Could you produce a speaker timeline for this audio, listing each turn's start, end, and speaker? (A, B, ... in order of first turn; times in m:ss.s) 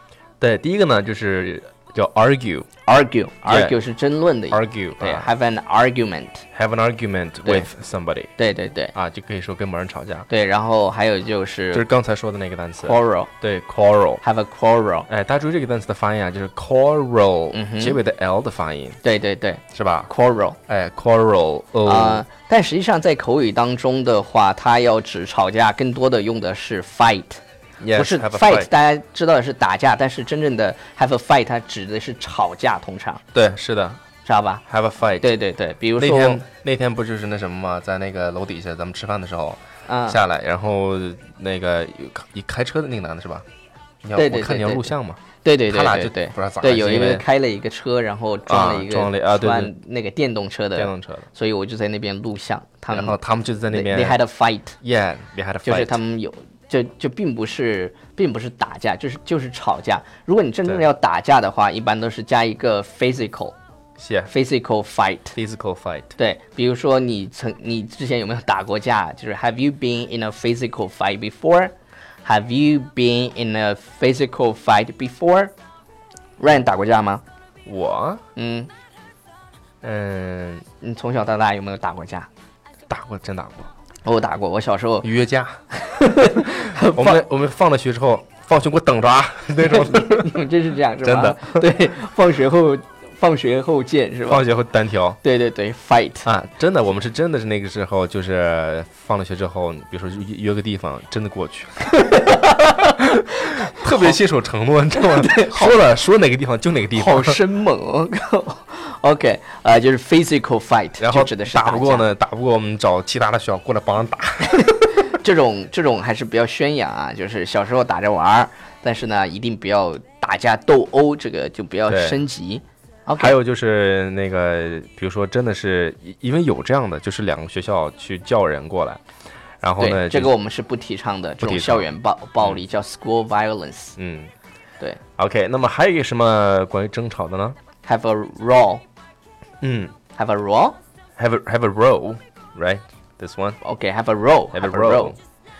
0:00.4-0:02.7 A
0:02.9-0:06.5 B
0:03.5-0:03.8 A
0:04.5-0:05.3 A
0:06.5-0:08.3 A
0:08.4-0:08.9 B
0:09.0-0:10.3 A
0:10.3-0:11.9 B
0:11.7-0:14.2 A
0:12.8-0:13.3 B
0:14.2-0:15.1 B
0:15.1-0:19.0 A
0:17.5-0:18.0 B
0:19.0-0:20.6 B
0:19.7-0:20.1 A
0:20.7-0:22.2 A
0:21.8-0:27.4 B
0:27.8-0:28.7 A
0:27.9-0:33.2 B
0:33.3-0:34.0 A
0:34.2-0:34.6 B
0:34.7-0:35.3 A
0:35.2-0:36.4 B
0:36.0-0:43.4 A
0:39.9-0:40.2 B
0:44.0-0:47.2 A
0:44.2-0:53.2 B
0:48.5-0:49.7 A
0:50.8-0:51.3 A
0:52.9-0:54.2 A
0:53.7-0:54.8 B
0:54.8-0:56.0 A
0:55.6-1:03.6 B
1:04.0-1:04.3 A
1:04.3-1:05.4 B
1:05.4-1:06.2 A
1:06.2-1:11.7 B
1:12.2-1:15.5 B
1:16.4-1:17.2 B
1:17.7-1:18.2 A
1:18.4-1:18.7 B
1:19.8-1:20.7 A
1:20.8-1:22.3 B
1:22.9-1:23.7 A
1:24.0-1:25.1 B
1:25.0-1:25.6 A
1:25.7-1:27.2 B
1:26.2-1:30.4 A
1:29.6-1:34.4 B
1:31.0-1:31.7 A
1:34.3-1:35.2 A
1:35.2-1:36.3 B
1:36.2-1:42.0 A
1:41.9-1:44.1 B
1:43.0-1:47.4 A
1:45.0-1:45.8 B
1:46.9-1:52.1 B
1:51.0-1:54.9 A
1:54.6-2:03.4 B
2:01.9-2:02.2 A
2:03.2-2:09.0 A
2:09.6-2:10.3 A
2:09.8-2:14.0 B
2:11.4-2:11.9 A
2:14.0-2:14.3 A
2:15.2-2:17.6 A
2:17.8-2:18.8 B
2:19.6-2:20.0 A
2:20.2-2:20.8 B
2:21.2-2:23.6 A
2:23.6-2:25.2 B
2:24.5-2:25.2 A